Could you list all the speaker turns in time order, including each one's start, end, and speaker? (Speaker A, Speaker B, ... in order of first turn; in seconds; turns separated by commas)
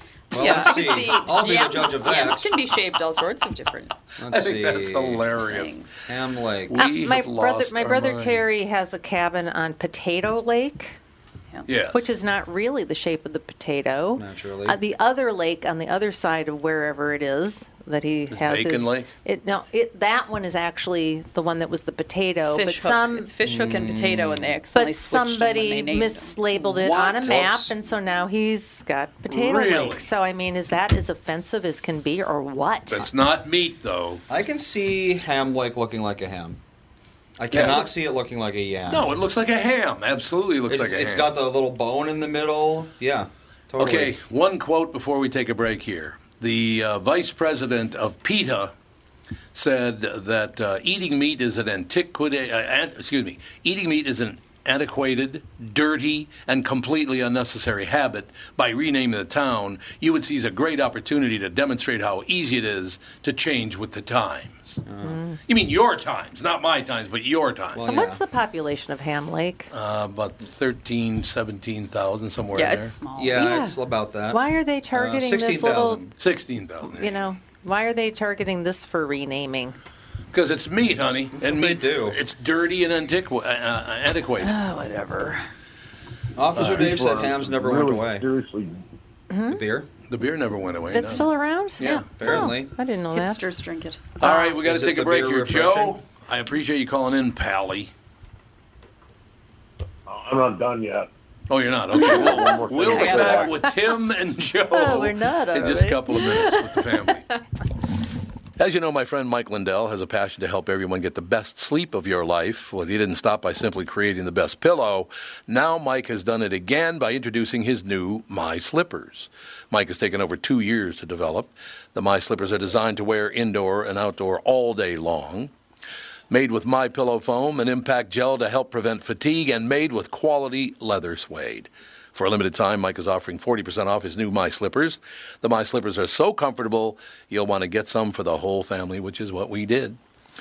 Speaker A: 0.3-2.5, Speaker B: 0.3-3.9, Speaker C: 0.4-0.7, Speaker A: 4.2-5.3, Speaker D: 4.3-5.8, Speaker B: 5.4-6.1, Speaker A: 6.1-6.8, Speaker D: 6.7-8.4, Speaker C: 6.7-11.0, Speaker D: 11.7-12.1, Speaker C: 11.9-23.3, Speaker A: 14.2-14.8, Speaker D: 18.3-19.1, Speaker B: 22.5-26.7, Speaker A: 23.4-24.6, Speaker C: 24.7-33.1, Speaker A: 26.8-27.7, Speaker D: 29.3-30.1, Speaker D: 32.9-34.2, Speaker A: 34.3-36.6, Speaker A: 37.4-39.1, Speaker D: 37.5-37.9, Speaker D: 38.9-41.4, Speaker A: 40.7-44.1, Speaker D: 43.8-48.7, Speaker D: 49.5-64.8, Speaker A: 64.8-65.2, Speaker C: 65.0-65.4, Speaker D: 65.5-67.9, Speaker A: 67.7-68.2, Speaker C: 67.9-69.7, Speaker D: 69.7-73.0, Speaker B: 72.5-73.5, Speaker A: 73.2-76.1, Speaker C: 73.4-73.8, Speaker C: 74.3-76.0, Speaker D: 76.2-77.3, Speaker C: 76.8-79.8, Speaker D: 80.3-84.5, Speaker A: 81.3-82.2, Speaker C: 84.4-85.5, Speaker A: 86.4-88.3, Speaker D: 86.6-87.0, Speaker E: 86.6-88.7, Speaker C: 89.3-89.6, Speaker A: 89.5-89.9, Speaker D: 90.1-92.1, Speaker C: 90.9-93.4, Speaker B: 91.9-92.5, Speaker A: 92.2-92.7, Speaker B: 93.1-94.2, Speaker D: 94.2-97.9, Speaker A: 94.6-96.0, Speaker E: 100.1-101.1, Speaker D: 101.5-107.2, Speaker C: 101.9-102.5, Speaker E: 102.3-103.5, Speaker B: 102.9-103.5, Speaker C: 104.7-107.2, Speaker D: 108.6-125.5, Speaker D: 126.3-140.0